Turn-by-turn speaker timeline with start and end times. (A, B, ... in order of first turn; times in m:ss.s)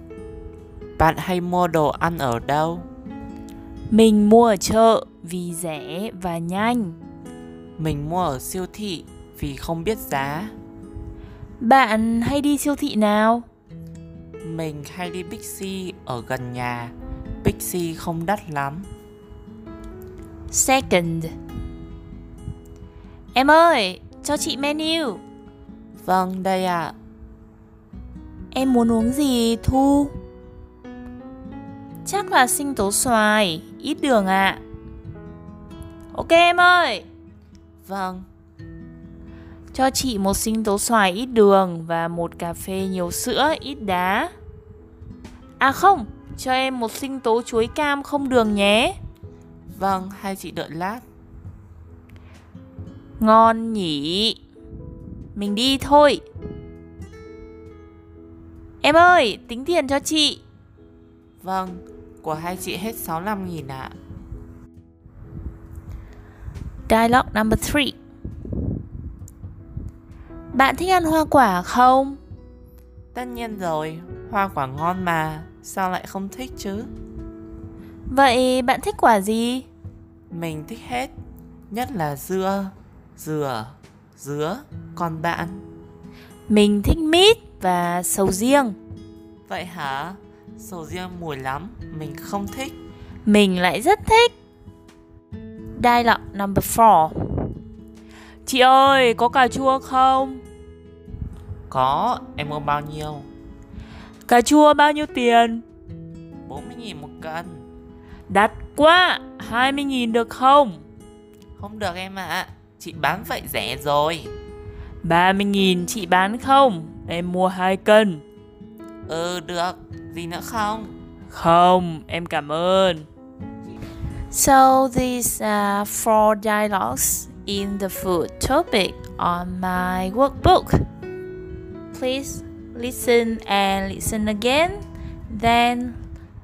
0:01.0-0:02.9 A
0:03.9-0:07.0 B
0:07.8-0:10.5 A
0:11.6-0:13.4 B
0:14.4-0:18.9 A
0:20.5-0:21.3 B
0:23.3-0:25.2 B
0:26.0-0:26.9 A
0:28.5-0:30.1 B
0:32.0-0:34.6 B
0:36.1-0:37.0 B
0:37.8-0:38.3 A
0:39.7-0:44.3 B
0:45.6-0:49.0 B
0:49.7-0:51.0 A
0:53.2-0:54.4 B
0:55.3-0:56.2 B
0:58.8-1:00.4 B
1:01.4-1:04.0 A
1:06.9-1:08.0 B
1:10.5-1:12.2 B
1:13.1-1:16.9 A
1:18.1-1:19.7 B
1:20.3-1:21.1 A
1:21.7-1:25.6 A
1:26.5-1:28.8 B
1:29.5-1:32.8 A
1:33.2-1:34.3 B
1:35.8-1:37.6 B
1:38.4-1:40.4 B
1:41.7-1:43.3 A
1:44.3-1:45.6 B
1:46.4-1:47.6 A
1:48.3-1:50.8 B
1:51.6-1:54.3 A
1:55.0-1:58.2 B
1:59.1-2:00.9 A
2:01.3-2:03.1 B
2:04.3-2:10.8 B
2:11.9-2:16.0 B